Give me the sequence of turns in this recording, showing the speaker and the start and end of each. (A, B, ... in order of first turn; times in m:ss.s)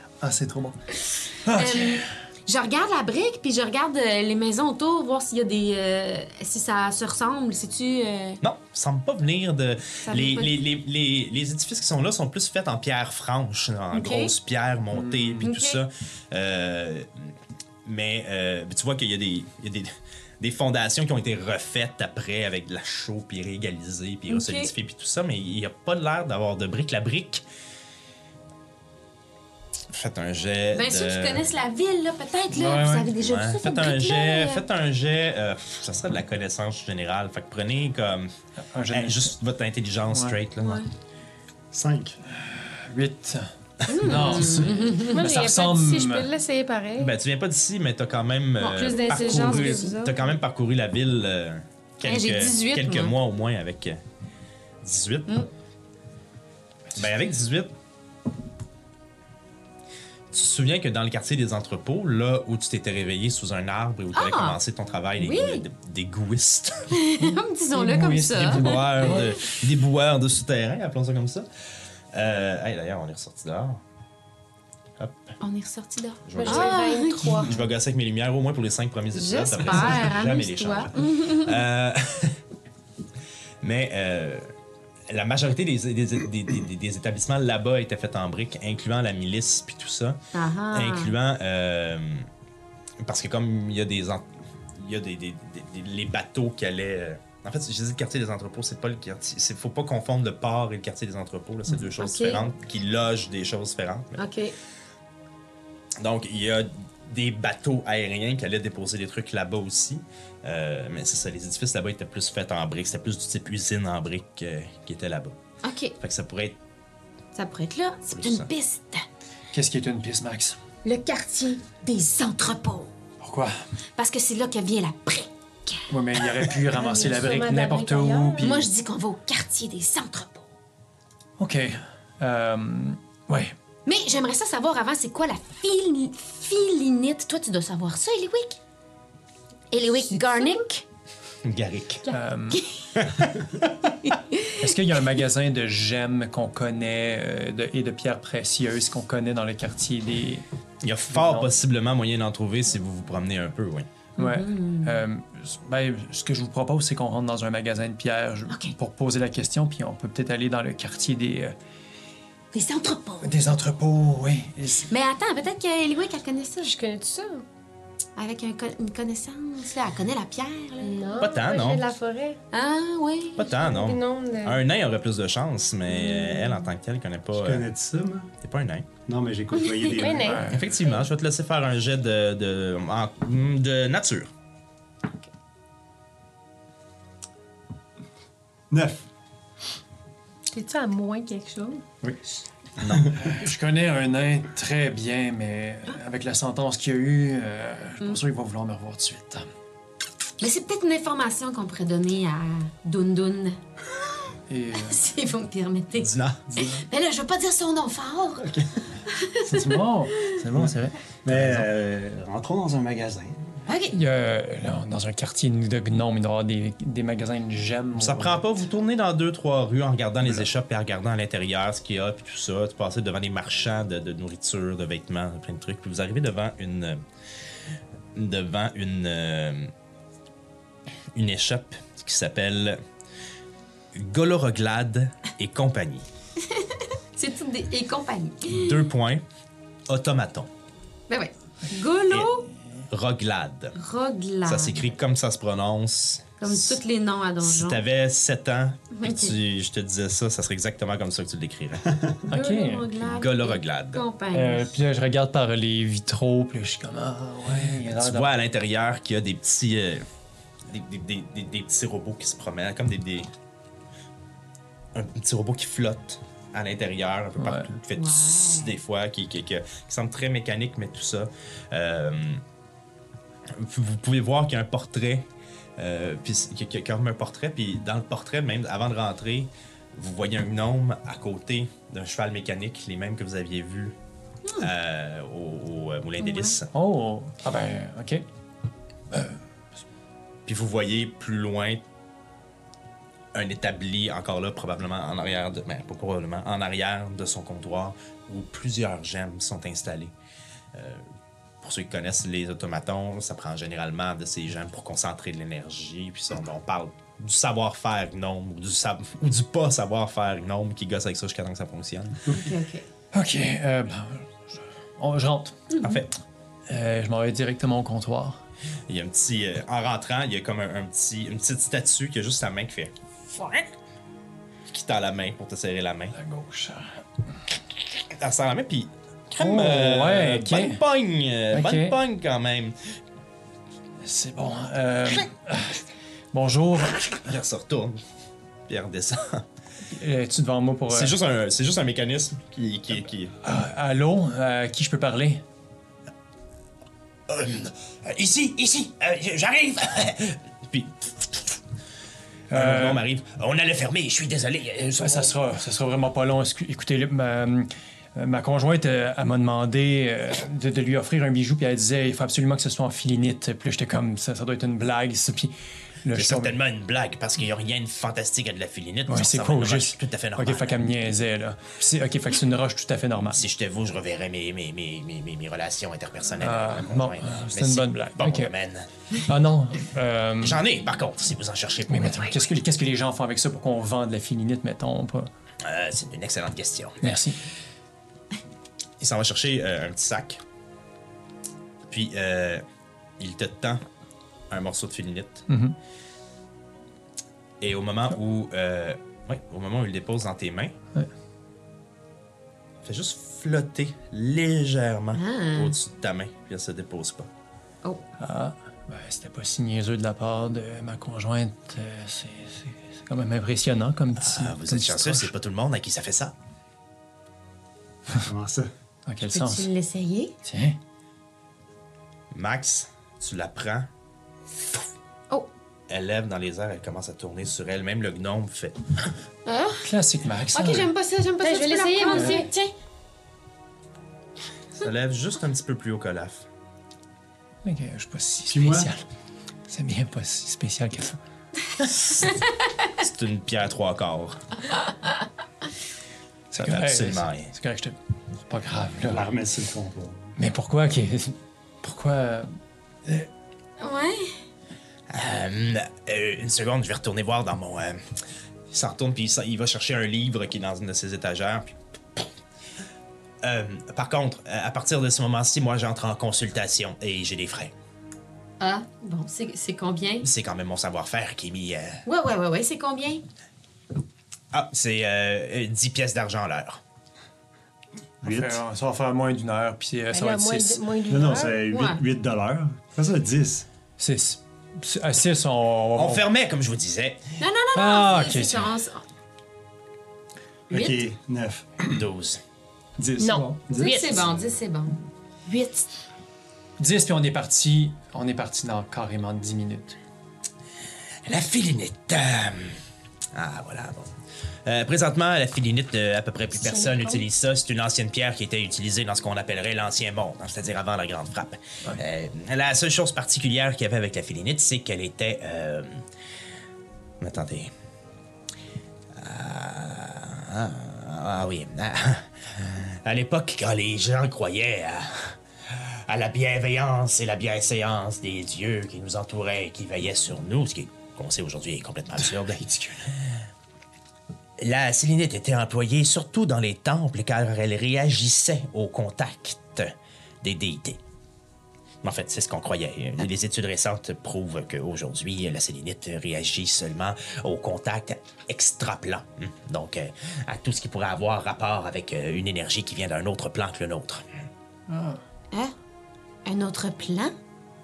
0:00.2-0:02.1 A
0:01.5-0:08.4 B
0:08.4-0:27.4 C
0:10.0-0:10.5 B
0:13.9-0:14.3 B
0:14.9-0:15.5 A
0:15.4-0:15.8 B
0:24.3-0:24.7 B
0:29.9-0:31.5 C
0:30.7-0:34.6 B
0:32.5-0:33.1 A
0:33.1-0:38.3 C
0:38.6-0:39.3 A
0:38.9-0:40.8 C
0:40.1-0:40.4 A
0:40.6-0:40.9 B
0:41.7-0:42.2 D
0:42.3-0:46.3 A
0:43.9-0:45.2 B
0:43.9-0:44.3 C
0:45.0-0:47.1 E
0:47.0-0:54.0 C
0:48.6-0:50.3 E
0:48.6-0:49.8 B
0:52.0-0:53.1 B
0:54.8-0:55.3 C
0:57.0-0:57.7 C
1:00.3-1:06.9 C
1:04.1-1:04.6 B
1:05.2-1:05.6 B
1:06.9-1:09.2 B
1:07.2-1:09.4 A
1:08.4-1:11.4 C
1:12.1-1:13.8 C
1:15.0-1:15.4 C
1:15.4-1:17.4 B
1:16.2-1:22.4 C
1:16.4-1:17.5 E
1:17.4-1:17.7 A
1:19.1-1:21.6 B
1:23.6-1:24.5 C
1:25.1-1:30.2 C
1:30.3-1:31.1 B
1:30.7-1:32.3 C
1:33.0-1:44.3 C
1:42.0-1:42.4 B
1:44.2-1:44.5 B
1:46.0-1:55.4 C
1:55.6-1:56.0 B
1:56.0-1:56.6 C
1:57.3-1:59.0 B
1:58.1-1:58.5 C
1:59.5-2:00.6 A
2:00.8-2:02.9 B
2:03.2-2:03.6 A
2:04.0-2:05.9 B
2:05.9-2:08.7 A
2:06.7-2:08.6 E
2:08.4-2:10.4 B
2:11.4-2:13.5 A
2:13.8-2:18.6 B
2:19.7-2:20.8 B
2:20.2-2:20.6 E
2:21.4-2:22.0 C
2:22.1-2:22.6 A
2:22.5-2:22.8 B
2:22.9-2:23.9 C
2:24.0-2:24.6 B
2:24.6-2:30.4 A
2:30.8-2:33.9 C
2:31.1-2:31.5 A
2:34.2-2:35.0 B
2:34.2-2:41.5 A
2:42.5-2:43.4 B
2:43.2-2:44.9 A
2:44.9-2:46.7 B
2:46.6-2:47.4 E
2:48.2-2:51.3 B
2:50.8-2:52.4 E
2:51.2-2:51.8 C
2:52.5-2:53.5 B
2:53.4-2:57.6 C
2:53.6-2:54.6 E
2:55.9-2:56.6 B
2:57.3-2:58.3 D
2:58.4-2:58.9 C
2:59.0-3:00.4 D
2:59.6-2:59.9 B
2:59.9-3:00.4 E
3:00.2-3:00.7 A
3:00.5-3:04.3 C
3:08.7-3:09.0 D
3:10.5-3:11.8 E
3:12.8-3:13.1 C
3:12.8-3:13.2 D
3:13.2-3:19.5 A
3:20.4-3:23.6 B
3:24.5-3:25.0 A
3:24.8-3:30.3 B
3:26.0-3:26.4 C
3:26.5-3:26.8 A
3:28.4-3:28.7 D
3:29.4-3:31.7 A
3:31.2-3:33.6 D
3:33.6-3:34.0 B
3:33.9-3:38.4 A
3:38.0-3:47.0 C
3:48.1-3:49.7 C
3:51.1-3:52.8 C
3:53.9-3:56.1 C
3:56.4-3:58.8 B
3:58.5-3:59.2 C
3:59.9-4:00.5 C
4:01.1-4:02.5 B
4:02.9-4:03.8 C
4:03.7-4:04.9 B
4:04.4-4:06.8 C
4:06.4-4:07.8 B
4:07.4-4:11.9 C
4:08.9-4:09.4 B
4:12.3-4:12.9 A
4:12.3-4:14.7 B
4:13.0-4:14.0 C
4:14.3-4:18.3 A
4:17.5-4:20.0 C
4:20.7-4:23.3 C
4:24.9-4:32.4 C
4:27.4-4:27.8 A
4:27.9-4:28.8 B
4:33.5-4:35.3 C
4:35.8-4:44.0 C
4:44.4-4:44.7 B
4:44.6-4:46.7 C
4:46.2-4:46.6 B
4:46.7-4:48.2 A
4:49.1-4:49.4 A
4:50.4-4:51.8 C
4:53.3-5:00.1 C
5:00.7-5:01.0 C
5:01.6-5:12.2 C
5:12.3-5:12.8 B
5:13.1-5:15.6 A
5:15.7-5:16.0 B
5:15.8-5:16.1 C
5:16.7-5:18.4 A
5:18.9-5:23.6 C
5:24.7-5:26.1 C
5:26.1-5:27.0 A
5:28.1-5:32.8 C
5:29.4-5:30.8 A
5:31.5-5:32.0 A
5:34.0-5:37.3 A
5:37.2-5:38.0 C
5:38.7-5:39.4 C
5:39.8-5:41.1 A
5:40.9-5:43.3 C
5:43.4-5:45.4 A
5:47.3-5:51.6 C
5:52.5-5:53.0 A
5:52.5-5:55.3 C
5:55.0-6:06.6 A
6:06.1-6:10.8 C
6:09.1-6:13.4 A
6:13.3-6:18.9 C
6:16.4-6:18.5 A
6:19.2-6:20.6 A
6:20.4-6:22.4 C
6:21.9-6:25.3 A
6:25.6-6:27.2 C
6:27.0-6:27.4 A
6:29.0-6:30.4 C
6:31.9-6:32.6 C
6:33.2-6:33.8 C
6:34.5-6:35.4 C
6:35.5-6:35.8 A
6:37.6-6:40.7 C
6:42.8-6:47.3 C
6:45.1-6:45.8 B
6:48.2-6:55.3 A
6:54.2-6:56.3 C
6:58.1-6:58.7 D
6:59.1-6:59.7 A
6:59.3-7:00.3 B
7:00.4-7:00.8 A
7:02.3-7:03.9 C
7:05.9-7:09.1 C
7:09.4-7:09.8 B
7:09.8-7:10.9 A
7:10.5-7:12.7 B
7:11.4-7:12.5 E
7:12.1-7:12.5 A
7:14.8-7:16.4 C
7:17.6-7:19.0 A
7:18.5-7:18.9 D
7:19.7-7:21.2 A
7:23.0-7:24.4 C
7:26.5-7:29.3 A
7:26.6-7:27.5 C
7:29.0-7:30.3 D
7:30.4-7:33.3 A
7:33.8-7:34.4 B
7:35.1-7:38.0 C
7:38.7-7:42.3 C
7:43.4-7:47.7 C
7:48.6-7:50.3 B
7:50.2-7:52.0 C
7:52.0-7:53.2 B
7:54.5-7:56.8 C
7:58.2-7:58.6 D
7:58.2-8:00.8 A
8:00.1-8:01.6 E
8:01.1-8:03.6 D
8:01.7-8:02.0 B
8:04.0-8:06.2 A
8:06.0-8:07.4 C
8:07.4-8:09.0 B
8:07.7-8:08.7 A
8:10.7-8:11.0 B
8:10.7-8:12.0 D
8:11.9-8:12.4 C
8:13.0-8:14.5 D
8:13.2-8:14.0 E
8:13.3-8:13.5 A
8:13.7-8:15.9 B
8:16.8-8:20.0 A
8:21.2-8:22.8 C
8:23.3-8:24.1 C
8:24.6-8:36.0 C
8:26.6-8:27.2 E
8:37.2-8:37.7 C
8:39.1-8:53.3 C
8:52.2-8:53.1 A
8:54.6-9:01.0 C
9:02.0-9:14.4 C
9:14.9-9:15.2 A
9:16.4-9:17.3 B